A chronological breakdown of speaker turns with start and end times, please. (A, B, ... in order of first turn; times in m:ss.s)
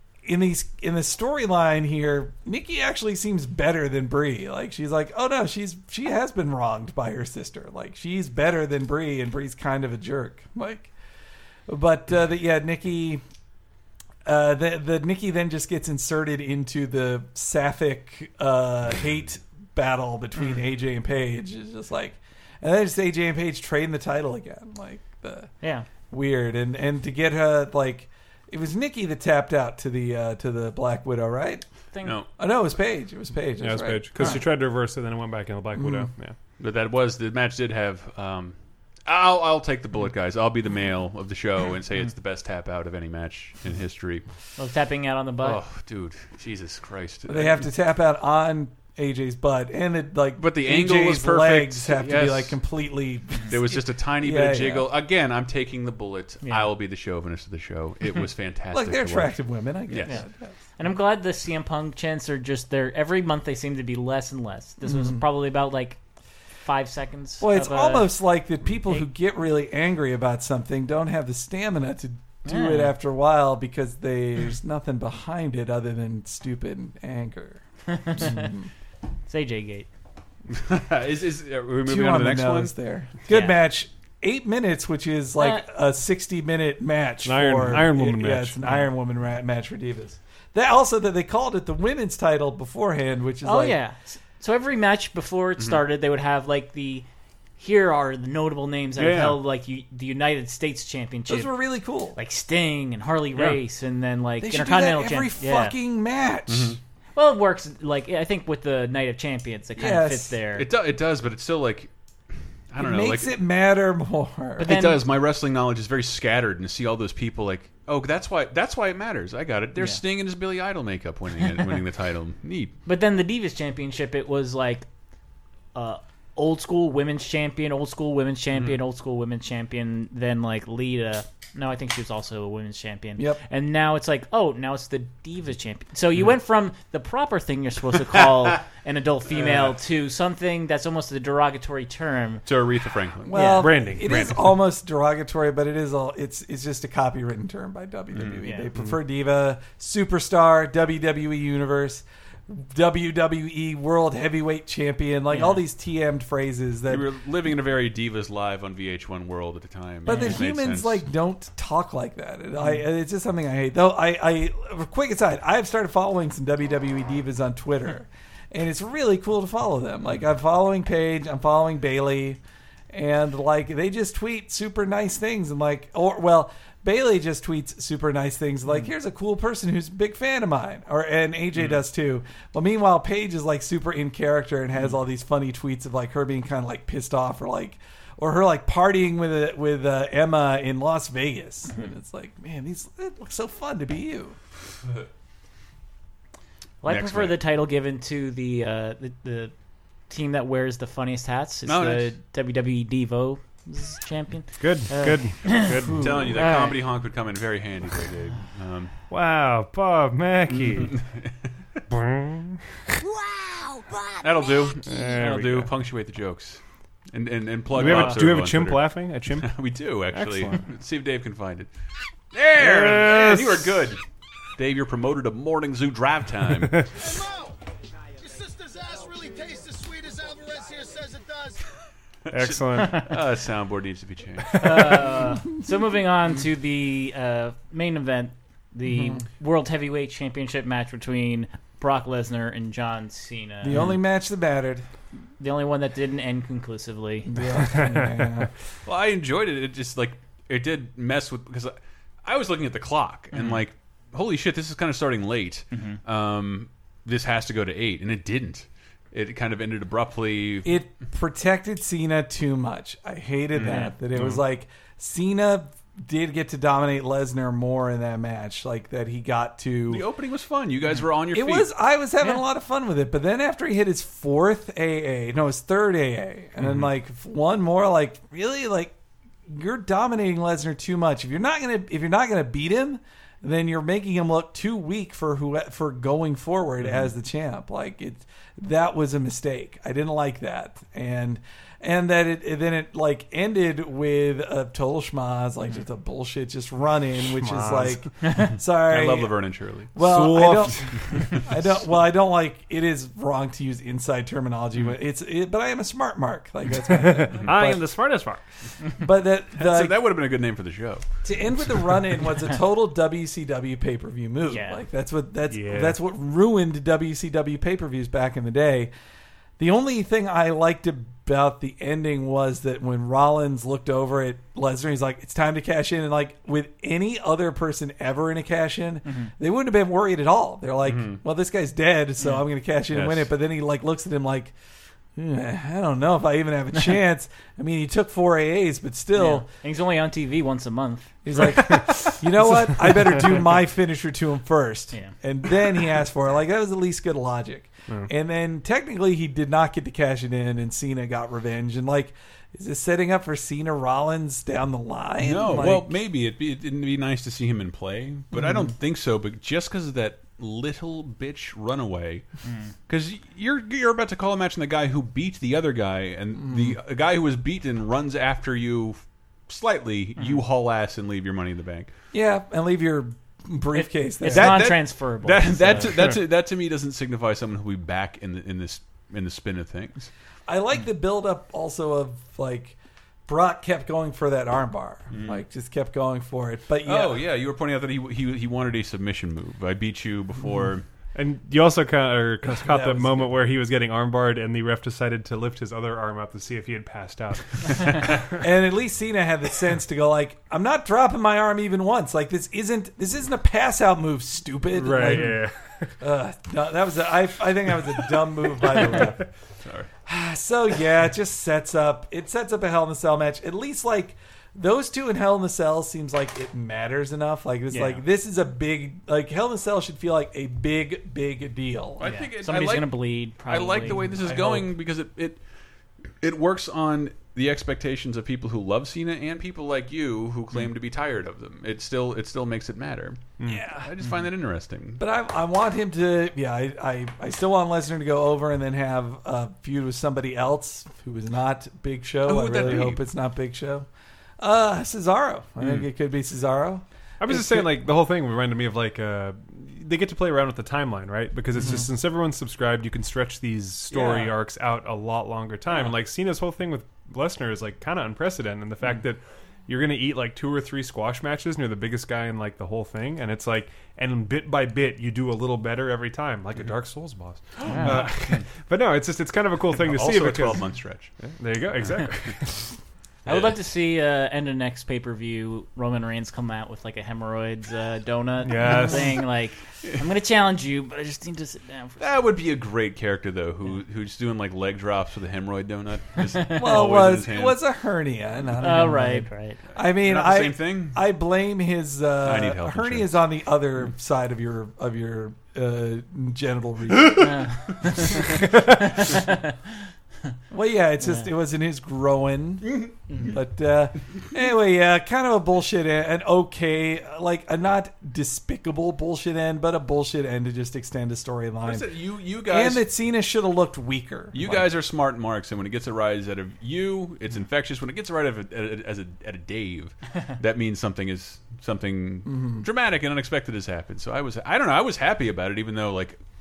0:00.2-0:10.9 A
0:11.7-0:13.2 A
0:14.2-0:25.5 A
0:25.6-0:25.9 B
0:26.1-0:31.6 A
0:32.4-0:34.3 A
0:33.6-0:36.3 C
0:35.7-0:36.1 A
0:36.6-0:44.2 D
0:44.6-0:45.6 B
0:45.4-0:47.6 D
0:47.3-0:54.9 A
0:50.4-0:52.6 D
0:53.5-0:59.3 D
0:58.7-1:00.5 A
0:59.9-1:00.2 D
1:00.8-1:06.0 B
1:04.8-1:05.2 A
1:06.6-1:08.1 B
1:07.4-1:17.6 A
1:12.4-1:12.9 B
1:17.9-1:18.5 B
1:18.1-1:18.7 A
1:19.3-1:19.9 B
1:20.5-1:22.7 D
1:21.8-1:33.8 A
1:23.3-1:23.6 B
1:25.4-1:25.6 B
1:27.2-1:28.6 C
1:33.4-1:37.0 B
1:37.6-1:41.5 B
1:39.0-1:39.4 C
1:41.3-1:42.2 A
1:42.1-1:45.7 B
1:44.4-1:46.8 A
1:46.5-1:46.8 D
1:47.2-1:50.7 B
1:49.8-1:50.3 A
1:50.5-1:51.9 D
1:52.7-1:53.3 D
1:52.8-1:54.7 A
1:54.6-1:55.0 B
1:54.6-2:02.7 D
2:02.8-2:04.8 B
2:05.7-2:22.4 B
2:13.2-2:13.4 A
2:22.4-2:23.3 D
2:23.2-2:37.0 A
2:23.3-2:23.6 B
2:23.6-2:24.5 C
2:28.1-2:28.4 D
2:35.3-2:35.6 B
2:36.9-2:41.0 D
2:40.0-3:14.4 A
2:40.1-2:40.3 B
3:16.8-3:19.5 B
3:16.8-3:17.4 D
3:20.1-3:26.8 B
3:21.6-3:22.1 D
3:24.6-3:26.1 C
3:25.9-3:29.0 D
3:29.1-3:31.0 C
3:30.9-3:31.3 D
3:31.9-3:32.8 C
3:34.2-3:36.6 D
3:34.8-3:35.7 C
3:37.1-3:41.7 D
3:37.7-3:40.6 C
3:42.3-3:44.0 D
3:42.6-3:43.7 C
3:44.6-3:46.9 D
3:46.9-3:47.6 E
3:48.2-3:51.6 E
3:52.3-3:55.0 D
3:52.3-3:53.1 C
3:54.6-4:03.8 B
3:58.8-3:59.2 A
4:03.6-4:04.8 A
4:05.4-4:07.3 B
4:07.3-4:08.5 A
4:08.8-4:20.8 D
4:13.3-4:13.6 B
4:15.7-4:16.0 B
4:20.6-4:30.0 A
4:23.6-4:24.4 D
4:29.9-4:31.7 D
4:31.3-4:38.9 A
4:39.5-4:59.3 A
4:46.8-4:47.1 D
4:57.4-4:58.1 C
4:58.8-4:59.9 D
4:59.9-5:07.8 A
5:00.0-5:01.4 C
5:01.0-5:01.4 D
5:07.0-5:08.4 C
5:09.0-5:09.9 A
5:09.5-5:11.0 D
5:11.2-5:18.9 A
5:14.5-5:14.8 B
5:15.5-5:16.0 C
5:19.6-5:34.5 A
5:29.0-5:29.3 B
5:30.8-5:31.2 D
5:32.9-5:33.3 D
5:35.2-5:39.5 A
5:39.2-5:41.8 B
5:41.2-5:55.9 A
5:55.2-6:02.3 D
5:58.4-5:58.7 A
6:02.4-6:02.7 B
6:02.9-6:11.9 D
6:06.4-6:06.8 A
6:12.1-6:14.7 A
6:13.8-6:15.9 B
6:14.3-6:20.1 D
6:20.5-6:27.2 A
6:25.1-6:25.4 D
6:26.8-6:30.8 D
6:31.1-6:38.2 C
6:32.6-6:33.3 A
6:38.4-6:45.4 A
6:44.7-6:45.9 C
6:46.0-6:49.2 A
6:49.6-6:49.9 D
6:50.0-7:02.1 A
6:57.7-6:58.0 B
7:02.0-7:05.4 D
7:02.0-7:04.0 B
7:04.2-7:04.7 A
7:06.2-7:15.0 D
7:13.4-7:13.7 C
7:13.5-7:13.9 A
7:15.0-7:23.9 A
7:22.2-7:23.0 D
7:24.4-7:27.7 A
7:27.2-7:52.7 C
7:33.9-7:34.3 A
7:47.6-7:48.4 D
7:47.6-7:48.0 B
7:49.7-7:51.1 D
7:53.2-7:53.5 D
7:53.2-8:02.0 B
7:58.4-7:59.2 C
8:02.0-8:07.6 D
8:06.5-8:17.5 A
8:08.6-8:09.6 B
8:09.8-8:11.0 D
8:12.2-8:13.2 D
8:17.2-8:18.3 B
8:19.0-8:19.4 B
8:20.5-8:31.9 A
8:22.7-8:23.3 D
8:31.6-8:32.8 D
8:32.4-8:34.7 A
8:34.3-8:46.2 D
8:42.3-8:42.6 A